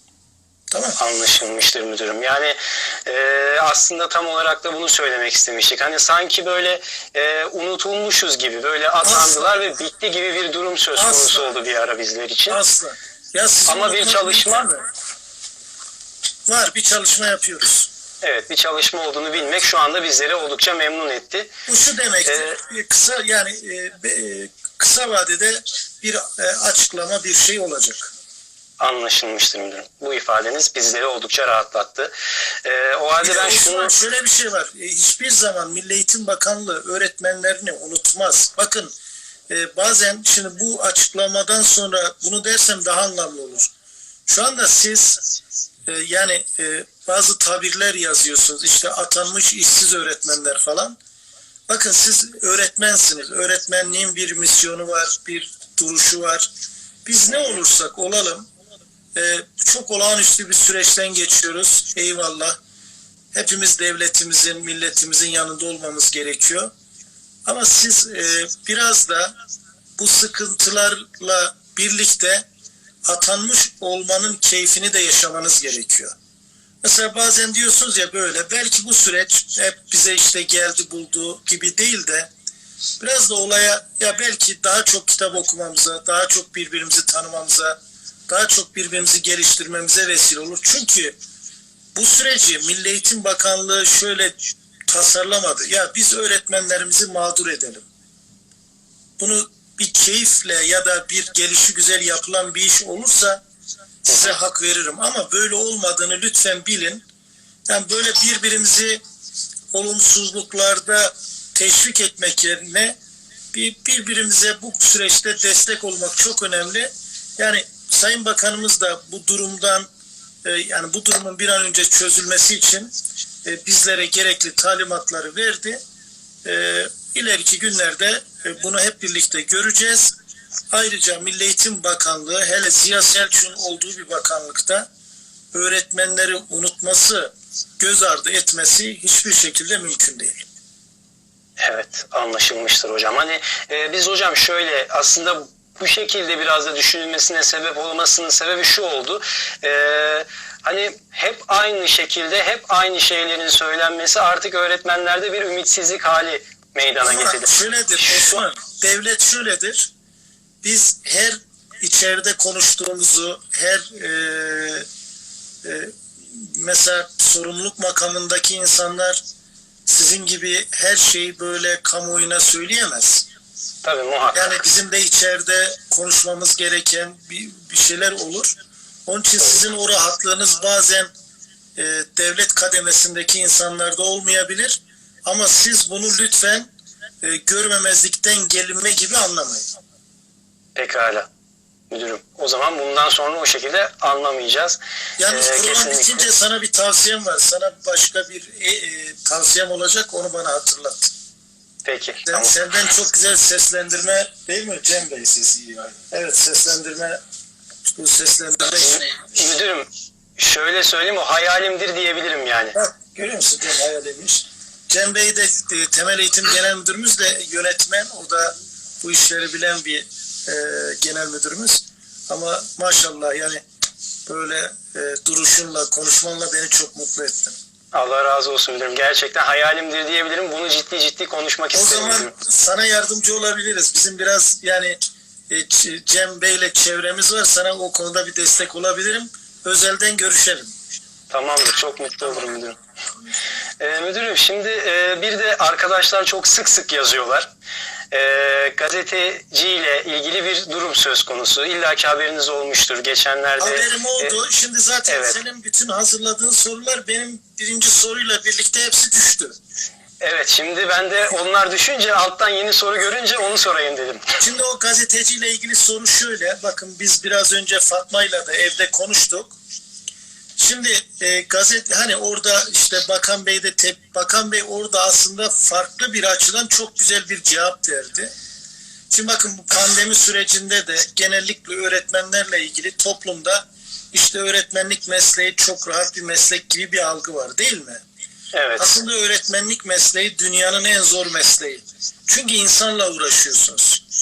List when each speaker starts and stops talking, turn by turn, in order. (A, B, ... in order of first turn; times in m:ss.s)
0:00.7-0:01.0 A
0:01.0-0:12.6 B
0:09.0-0:09.5 A
0:11.0-0:11.5 A
0:12.5-0:14.8 A
0:13.7-0:14.7 B
0:16.5-0:17.9 A
0:18.2-0:21.5 B
0:21.7-0:28.1 A
0:22.3-0:22.6 B
0:28.8-0:32.1 B
0:32.6-0:33.9 B
0:33.2-0:39.0 A
0:39.5-0:43.7 A
0:44.3-0:45.2 A
0:45.9-0:51.0 A
0:51.7-0:56.5 A
0:57.0-0:58.5 A
0:59.2-1:02.6 A
1:03.3-1:06.7 A
1:07.5-1:09.3 A
1:10.0-1:12.5 A
1:13.1-1:16.2 A
1:16.8-1:22.3 A
1:23.0-1:31.2 A
1:32.0-1:34.4 A
1:34.9-1:37.9 A
1:39.2-1:43.4 A
1:44.1-1:47.0 A
1:44.1-1:44.4 B
1:47.7-1:49.0 A
1:49.7-1:53.0 A
1:53.5-1:59.9 A
2:00.4-2:05.8 A
2:06.4-2:10.1 A
2:10.7-2:14.9 A
2:15.5-2:20.5 A
2:21.6-2:38.3 B
2:37.0-2:39.9 A
2:40.6-2:44.9 A
2:45.6-2:49.2 A
2:49.9-2:53.3 A
2:53.8-2:54.6 B
2:54.3-2:58.6 A
2:59.1-3:01.1 A
3:01.8-3:06.7 A
3:07.2-3:09.7 A
3:10.8-3:11.3 B
3:11.9-3:16.3 B
3:15.2-3:21.1 A
3:21.8-3:22.5 B
3:22.3-3:27.2 A
3:27.8-3:29.3 A
3:28.8-3:32.8 B
3:32.8-3:43.6 A
3:44.3-3:47.6 A
3:47.9-3:52.3 B
3:51.7-4:00.7 A
4:01.3-4:02.8 B
4:03.8-4:07.5 B
4:08.1-4:14.4 B
4:13.6-4:19.6 A
4:15.1-4:15.4 B
4:20.2-4:24.4 B
4:24.4-4:29.6 A
4:30.6-4:38.3 A
4:39.1-4:48.0 A
4:48.5-4:48.9 B
4:48.8-4:54.0 A